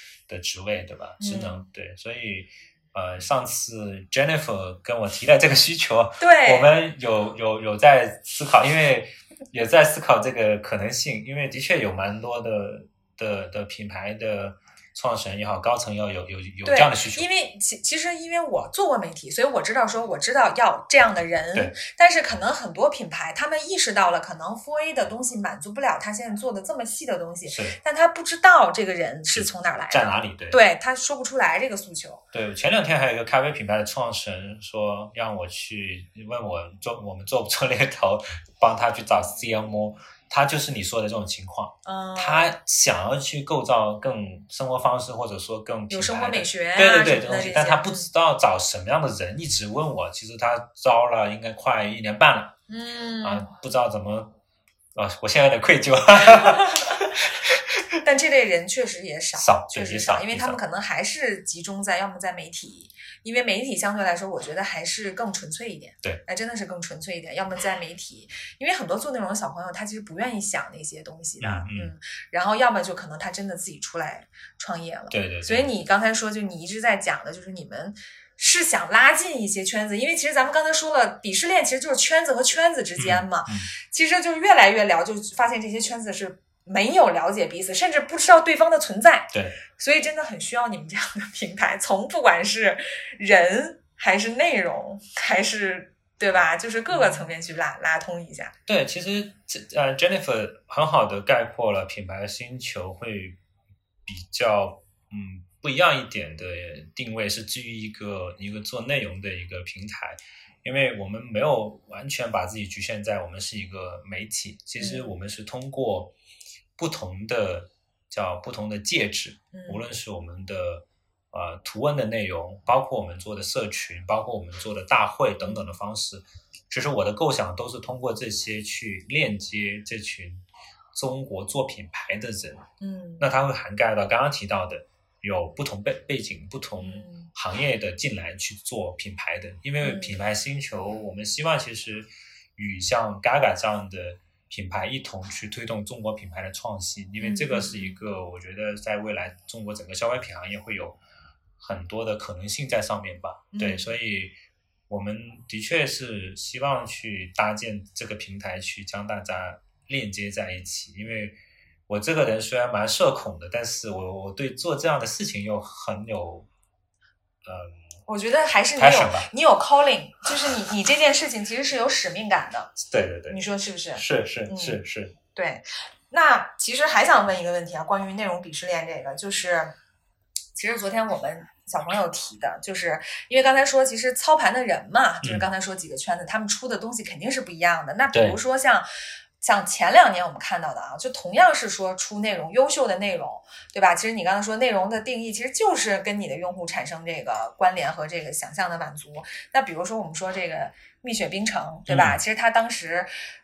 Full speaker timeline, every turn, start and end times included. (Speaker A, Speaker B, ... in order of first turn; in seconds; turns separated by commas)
Speaker A: 0.3-17.2, Speaker B: 1.2-1.6, Speaker B: 6.2-6.7, Speaker B: 16.6-32.2, Speaker A: 27.5-27.8, Speaker A: 29.3-30.6, Speaker A: 32.3-52.5, Speaker B: 41.8-42.5, Speaker B: 45.9-48.1, Speaker B: 52.7-53.5, Speaker A: 53.2-54.4, Speaker A: 54.9-57.9, Speaker B: 56.4-56.9, Speaker B: 58.0-98.5, Speaker A: 59.3-60.6, Speaker A: 71.4-71.9, Speaker A: 75.1-75.7, Speaker A: 83.0-83.7, Speaker A: 89.3-89.6, Speaker A: 98.7-103.4, Speaker A: 104.0-116.1, Speaker B: 114.8-115.1, Speaker A: 116.8-132.7, Speaker B: 119.5-119.8, Speaker B: 132.8-133.2, Speaker A: 133.2-151.0, Speaker B: 136.8-137.3, Speaker B: 139.8-140.1, Speaker B: 147.2-148.0, Speaker A: 151.6-154.3, Speaker B: 153.5-153.9, Speaker A: 154.9-166.5, Speaker A: 167.4-167.8, Speaker B: 168.1-172.8, Speaker A: 168.8-169.3, Speaker A: 172.8-173.4, Speaker B: 173.3-174.8, Speaker A: 173.9-175.1, Speaker B: 175.3-179.7, Speaker B: 180.5-188.9, Speaker A: 188.1-188.4, Speaker B: 189.4-203.1, Speaker A: 201.9-202.2